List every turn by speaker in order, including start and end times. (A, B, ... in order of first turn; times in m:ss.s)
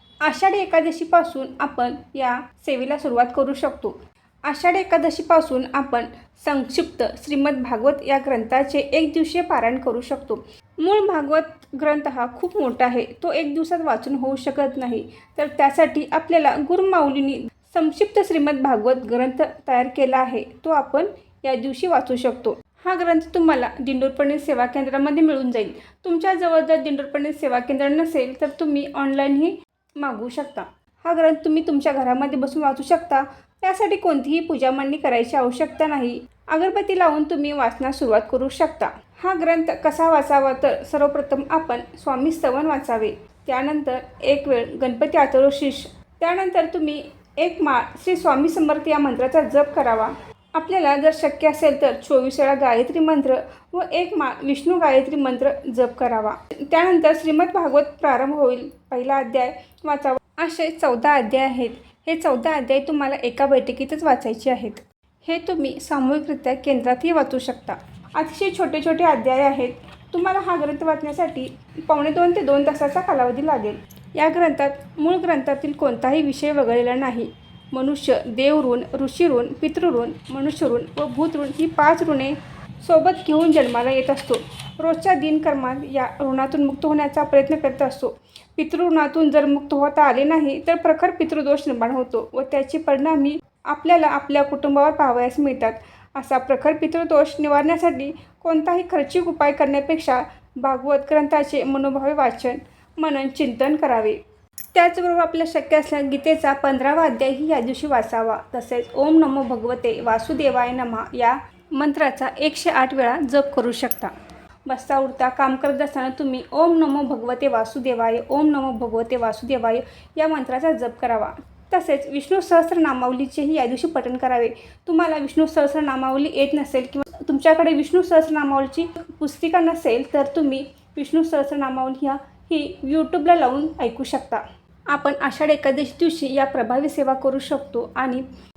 0:00.2-1:44.2 A
1:44.7-1:54.1 A
1:54.7-2:18.2 A